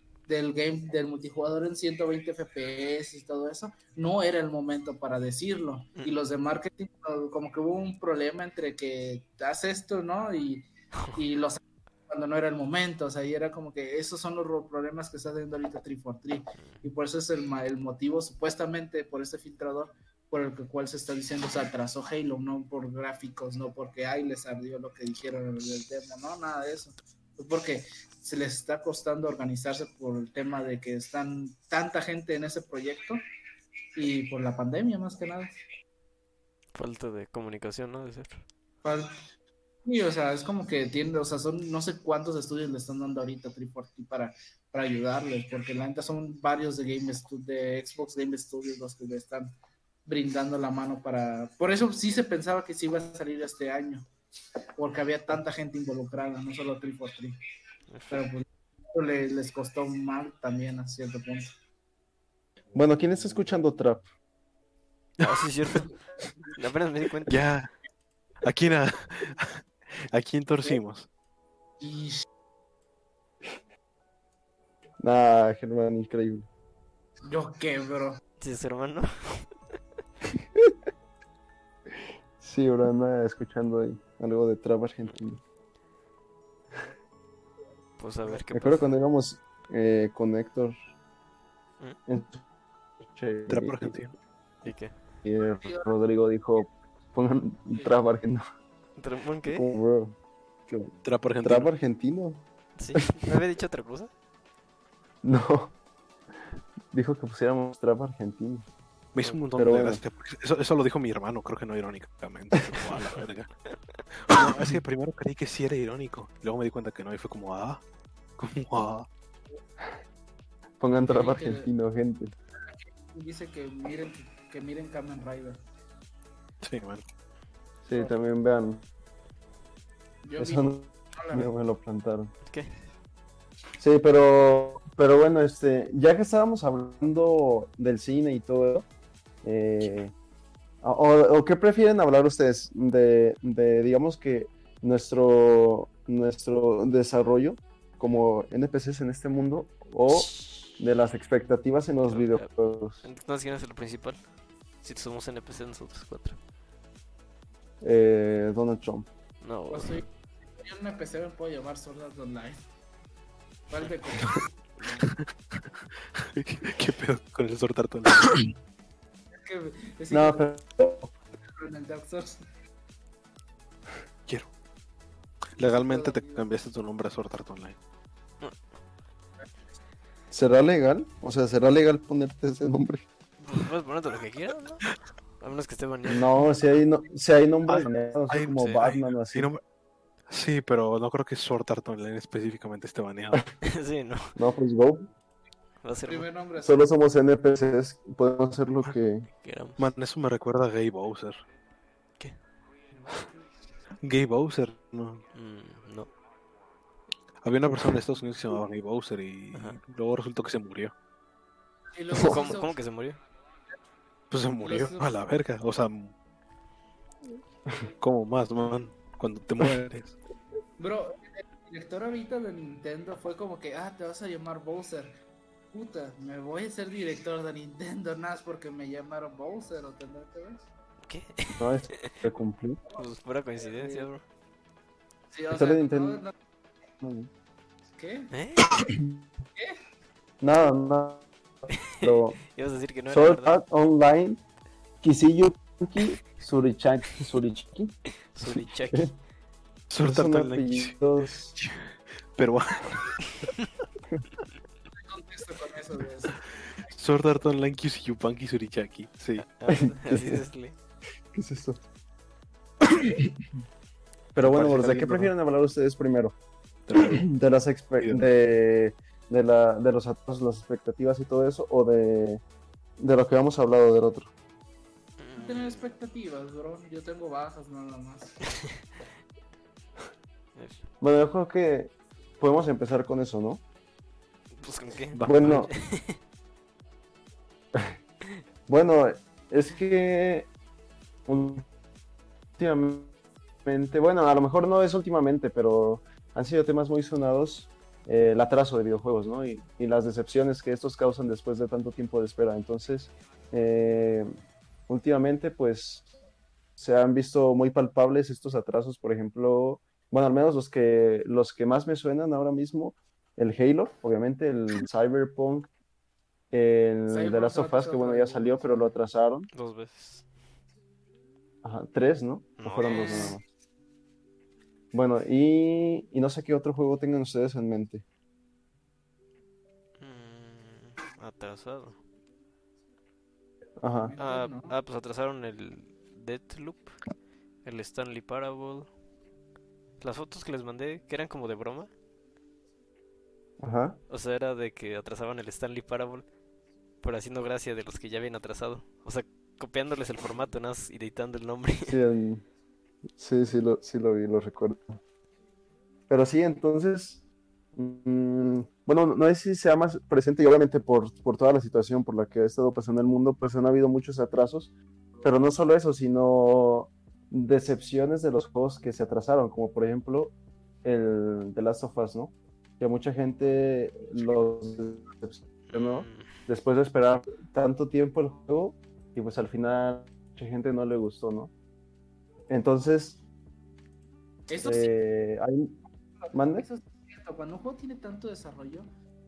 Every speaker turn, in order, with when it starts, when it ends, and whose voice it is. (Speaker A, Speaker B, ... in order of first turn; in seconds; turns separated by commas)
Speaker A: 0.3-33.2, Speaker A: 34.0-35.5, Speaker B: 36.7-38.4, Speaker A: 38.8-39.1, Speaker A: 39.8-49.5, Speaker A: 50.0-54.0, Speaker A: 54.8-57.3, Speaker B: 57.9-58.2, Speaker A: 58.1-61.5, Speaker C: 62.7-64.0, Speaker B: 65.2-65.9, Speaker B: 66.5-67.4, Speaker D: 67.3-67.7, Speaker D: 68.4-71.1, Speaker A: 71.8-72.2, Speaker C: 75.0-76.5, Speaker A: 77.2-78.2, Speaker B: 78.4-79.5, Speaker C: 82.4-85.4, Speaker B: 88.0-88.9, Speaker C: 88.5-90.7, Speaker C: 92.1-92.4, Speaker C: 93.0-94.0, Speaker D: 93.5-94.1, Speaker B: 94.6-94.9, Speaker C: 95.2-98.4, Speaker A: 95.6-95.9, Speaker B: 99.0-99.7, Speaker C: 99.5-100.2, Speaker C: 100.7-102.4, Speaker D: 101.0-101.7, Speaker B: 102.8-104.1, Speaker C: 102.9-103.3, Speaker C: 105.2-105.7, Speaker C: 106.9-108.6, Speaker D: 109.1-113.5, Speaker C: 109.5-110.0, Speaker D: 114.2-117.8, Speaker D: 118.4-119.1, Speaker C: 120.8-122.3, Speaker A: 121.1-121.7, Speaker A: 122.6-125.6, Speaker D: 126.6-127.0, Speaker C: 127.8-128.8, Speaker A: 130.2-131.5, Speaker C: 130.4-132.3, Speaker C: 133.8-138.8, Speaker C: 139.4-140.1, Speaker C: 140.8-153.0, Speaker B: 152.1-152.5, Speaker B: 153.0-154.2, Speaker B: 154.8-156.4, Speaker C: 157.8-159.1, Speaker B: 159.4-160.0, Speaker A: 159.7-162.6, Speaker A: 163.7-164.5, Speaker D: 165.0-168.5, Speaker A: 169.3-170.5, Speaker C: 170.1-171.1, Speaker A: 171.4-172.4, Speaker D: 175.6-177.8, Speaker A: 175.6-176.5, Speaker C: 180.3-183.0, Speaker B: 183.4-184.9, Speaker B: 185.4-186.3, Speaker C: 186.1-189.5, Speaker D: 187.7-189.6, Speaker D: 190.3-193.5, Speaker B: 193.6-194.3, Speaker C: 194.3-195.1, Speaker B: 195.8-196.3, Speaker A: 196.1-196.9, Speaker C: 196.6-199.3, Speaker B: 199.4-199.8, Speaker D: 199.8-201.4, Speaker D: 204.0-205.2, Speaker B: 205.3-206.1, Speaker D: 207.4-210.9, Speaker B: 209.5-209.8, Speaker A: 211.9-212.8, Speaker B: 212.1-213.2, Speaker D: 214.3-216.1, Speaker A: 214.6-215.1, Speaker D: 218.0-220.2, Speaker A: 220.8-225.1, Speaker A: 225.7-230.7, Speaker B: 231.0-232.2, Speaker C: 231.6-232.8, Speaker B: 232.9-234.2, Speaker A: 235.3-236.3, Speaker C: 235.5-236.2, Speaker C: 237.0-237.3, Speaker A: 238.0-238.3, Speaker B: 238.3-238.8, Speaker C: 238.8-239.1, Speaker C: 240.4-241.2, Speaker B: 241.7-243.6, Speaker C: 242.0-242.4, Speaker C: 243.1-244.4, Speaker C: 245.0-247.9, Speaker B: 248.3-249.1, Speaker C: 248.5-249.1, Speaker D: 249.9-253.5, Speaker C: 250.0-251.5, Speaker B: 253.4-253.7, Speaker A: 254.9-256.4, Speaker D: 256.8-259.4, Speaker B: 259.4-260.7, Speaker C: 259.7-260.4, Speaker C: 261.3-261.8, Speaker C: 262.8-263.5, Speaker C: 264.3-266.4, Speaker D: 264.4-265.3, Speaker D: 266.9-267.2, Speaker C: 266.9-272.4, Speaker C: 273.0-274.3, Speaker B: 275.2-275.9, Speaker A: 275.4-278.4, Speaker B: 278.5-278.8, Speaker B: 280.5-280.8, Speaker C: 281.0-283.6, Speaker B: 284.6-286.2, Speaker C: 285.1-285.7, Speaker C: 288.7-290.5, Speaker C: 291.3-291.6, Speaker C: 292.6-293.1, Speaker C: 293.6-304.3, Speaker C: 304.9-306.1, Speaker C: 306.8-315.7, Speaker C: 316.5-319.5, Speaker A: 317.1-318.9, Speaker B: 319.5-320.2, Speaker C: 321.6-323.4, Speaker B: 322.6-323.4, Speaker A: 322.8-323.4, Speaker C: 324.9-328.0, Speaker B: 330.0-332.0, Speaker C: 333.8-334.1, Speaker A: 334.0-334.8, Speaker B: 334.2-336.9, Speaker B: 337.6-338.9, Speaker B: 340.0-341.9, Speaker C: 343.6-344.0, Speaker B: 344.1-346.2, Speaker B: 347.0-352.0, Speaker C: 351.8-352.4, Speaker C: 353.2-355.0, Speaker C: 356.1-357.2, Speaker C: 357.7-364.7, Speaker C: 365.2-381.5, Speaker B: 375.7-376.3, Speaker C: 382.5-383.2, Speaker A: 384.5-384.9, Speaker C: 384.6-385.8, Speaker A: 386.2-388.9, Speaker C: 386.3-386.6